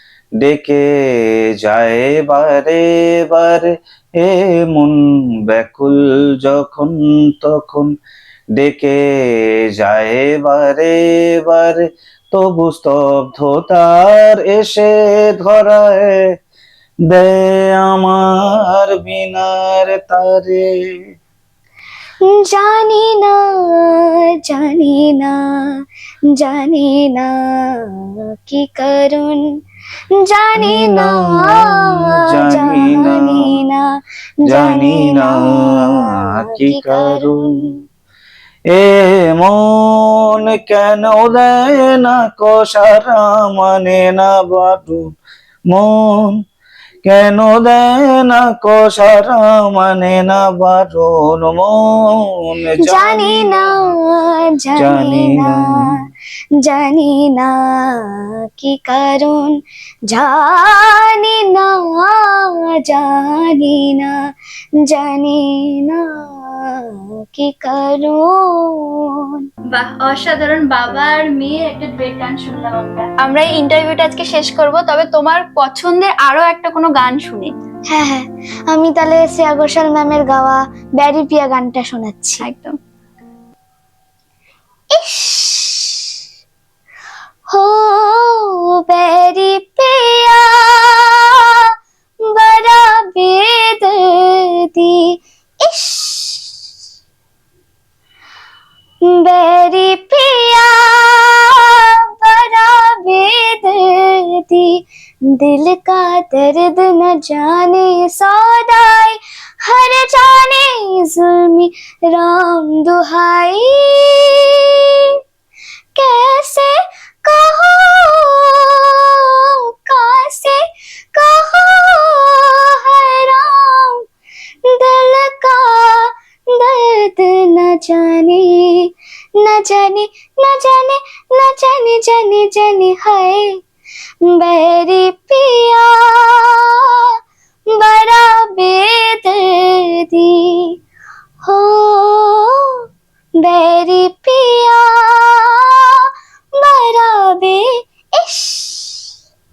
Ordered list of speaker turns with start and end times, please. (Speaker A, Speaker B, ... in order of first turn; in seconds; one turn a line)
Speaker A: 0.4-7.9
Speaker A: 8.6-16.2
Speaker A: 17.1-20.9
Speaker B: 22.3-25.5
Speaker B: 26.4-29.5
Speaker B: 30.2-33.9
Speaker A: 30.6-33.5
Speaker A: 34.5-37.4
Speaker B: 34.5-37.6
Speaker A: 38.7-45.0
Speaker A: 45.7-46.4
Speaker A: 47.1-51.8
Speaker A: 52.5-53.7
Speaker B: 52.9-55.8
Speaker A: 54.8-55.6
Speaker B: 56.7-59.5
Speaker B: 60.1-64.2
Speaker B: 64.9-66.8
Speaker B: 67.3-69.3
Speaker C: 69.7-77.5
Speaker B: 77.9-82.4
Speaker C: 82.4-82.8
Speaker B: 85.0-86.1
Speaker B: 87.5-91.2
Speaker B: 92.3-95.1
Speaker B: 95.6-96.5
Speaker B: 99.1-104.8
Speaker B: 105.3-114.7
Speaker B: 116.0-116.7
Speaker B: 117.2-120.6
Speaker B: 121.2-124.0
Speaker B: 124.7-128.9
Speaker B: 129.4-133.6
Speaker B: 134.3-136.8
Speaker B: 137.8-140.6
Speaker B: 141.5-142.6
Speaker B: 143.4-145.9
Speaker B: 146.6-147.6
Speaker B: 148.2-149.1